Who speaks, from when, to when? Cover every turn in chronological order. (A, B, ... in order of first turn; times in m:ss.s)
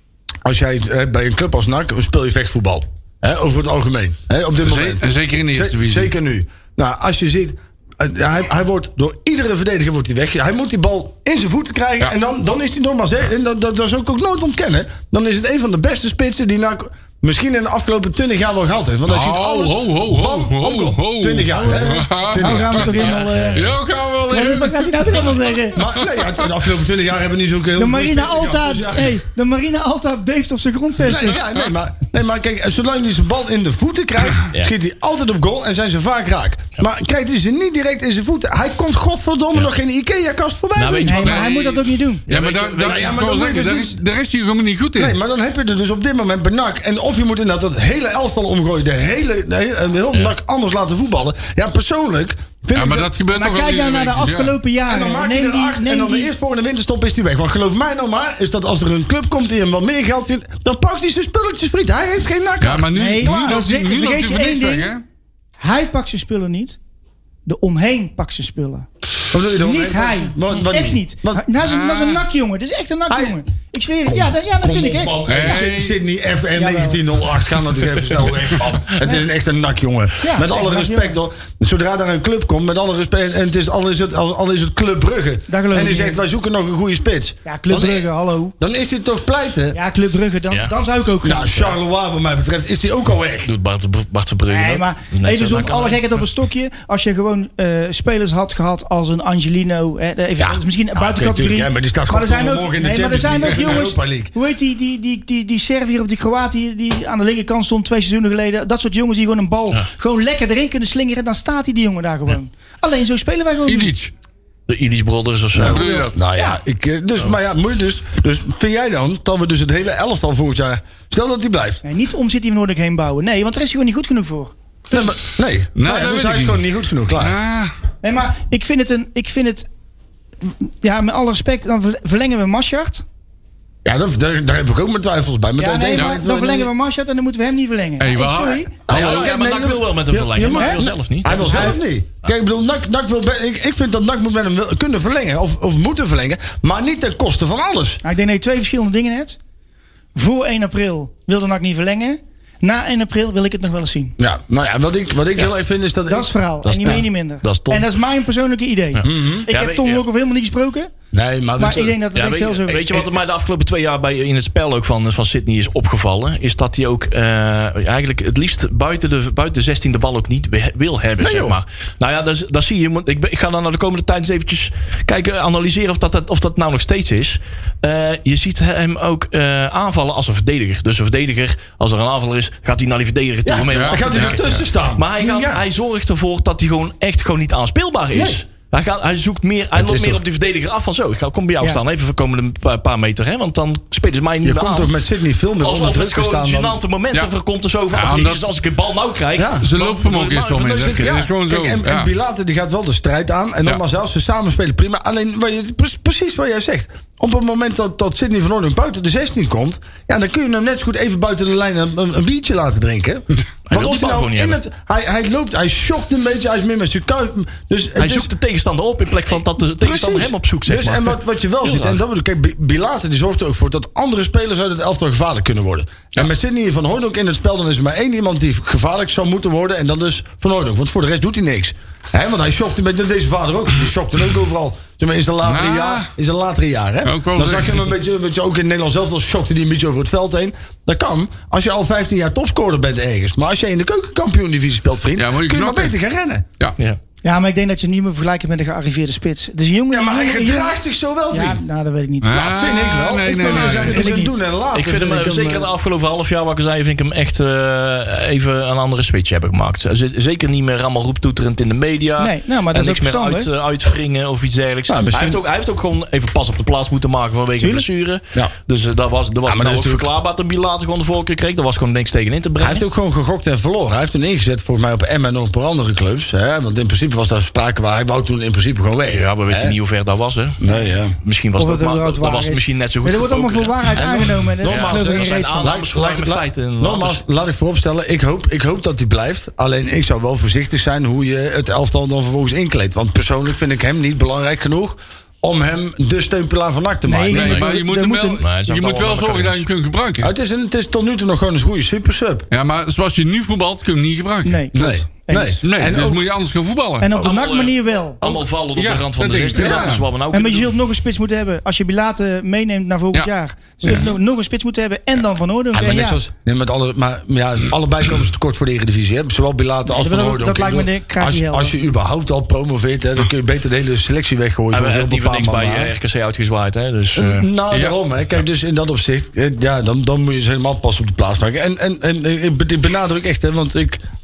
0:00.4-0:23.5 A
0:04.6-0:06.1 B
0:19.1-0:26.4 B
0:21.5-0:23.7 C
0:24.3-0:25.8 C
0:25.7-0:29.2 A
0:27.8-0:31.4 C
0:31.0-0:41.4 A
0:40.8-0:43.2 D
0:41.1-0:42.2 C
0:41.2-0:41.6 B
0:42.3-0:45.1 B
0:42.8-0:44.0 A
0:45.0-0:53.1 A
0:52.7-0:54.6 B
0:53.3-0:56.3 C
0:54.9-1:03.6 A
1:02.6-1:05.0 B
1:02.9-1:04.9 C
1:05.6-1:06.8 C
1:07.4-1:08.9 C
1:09.3-1:11.4 A
1:09.6-1:15.2 C
1:11.6-1:12.2 B
1:13.1-1:13.4 A
1:14.1-1:29.8 A
1:15.3-1:16.0 B
1:16.6-1:17.0 C
1:20.2-1:21.2 C
1:25.5-1:26.2 C
1:27.4-1:28.6 C
1:29.7-1:31.8 C
1:31.2-1:33.5 A
1:33.4-1:36.0 D
1:34.5-1:53.9 C
1:40.4-1:44.3 A
1:53.6-1:54.1 B
1:54.7-1:55.9 D
1:55.5-2:01.8 A
1:55.6-1:56.2 B
1:55.8-1:56.6 C
2:01.8-2:05.1 C
2:04.9-2:07.4 A
2:05.8-2:06.6 B
2:07.1-2:07.7 B
2:08.0-2:09.6 C
2:10.4-2:13.0 C
2:13.8-2:16.7 A
2:15.6-2:18.7 C
2:18.0-2:19.3 B
2:18.9-2:28.0 A
2:18.9-2:21.8 D
2:20.5-2:20.8 C
2:21.3-2:21.8 C
2:28.0-2:29.4 C
2:30.1-2:34.2 C
2:34.2-2:36.3 A
2:36.1-2:40.9 C
2:36.6-2:37.9 D
2:38.9-2:40.0 D
2:39.0-2:39.5 A
2:41.1-2:42.0 A
2:41.6-2:43.1 C
2:42.1-3:14.9 D
2:51.2-2:51.6 A
3:03.4-3:05.6 A
3:03.7-3:04.4 B
3:08.1-3:08.4 A
3:09.8-3:10.2 A
3:14.4-3:16.8 A
3:15.6-3:21.3 D
3:17.9-3:18.4 B
3:19.4-3:19.7 A
3:19.6-3:22.1 B
3:20.6-3:38.3 A
3:33.7-3:34.6 D
3:38.0-3:42.0 D
3:39.8-4:06.4 A
3:55.4-3:56.1 B
3:57.0-3:57.9 B
4:05.2-4:05.9 B
4:07.2-4:10.8 C
4:09.9-4:11.6 A
4:11.3-4:12.5 C
4:12.2-4:14.1 B
4:12.3-4:15.7 A
4:13.3-4:14.4 C
4:14.7-4:32.8 D
4:22.2-4:23.5 C
4:24.9-4:25.4 A
4:27.6-4:27.8 C
4:29.4-4:30.1 A
4:32.6-4:39.8 A
4:39.1-4:40.6 D
4:40.6-4:41.2 A
4:41.2-4:44.1 D
4:41.6-4:45.8 C
4:43.9-4:57.6 A
4:44.6-4:47.2 D
4:57.1-4:58.4 C
4:57.3-5:00.3 B
4:58.4-4:59.6 D
5:00.2-5:02.5 A
5:02.5-5:04.6 B
5:04.4-5:05.6 C
5:04.7-5:06.2 A
5:05.6-5:07.1 B
5:07.0-5:08.2 C
5:07.2-5:10.7 D
5:08.8-5:10.0 B
5:09.6-5:09.9 A
5:10.3-5:16.2 C
5:13.8-5:14.1 A
5:15.7-5:25.9 A
5:19.9-5:21.8 C
5:24.7-5:27.5 D
5:27.1-5:34.0 A
5:27.7-5:28.0 B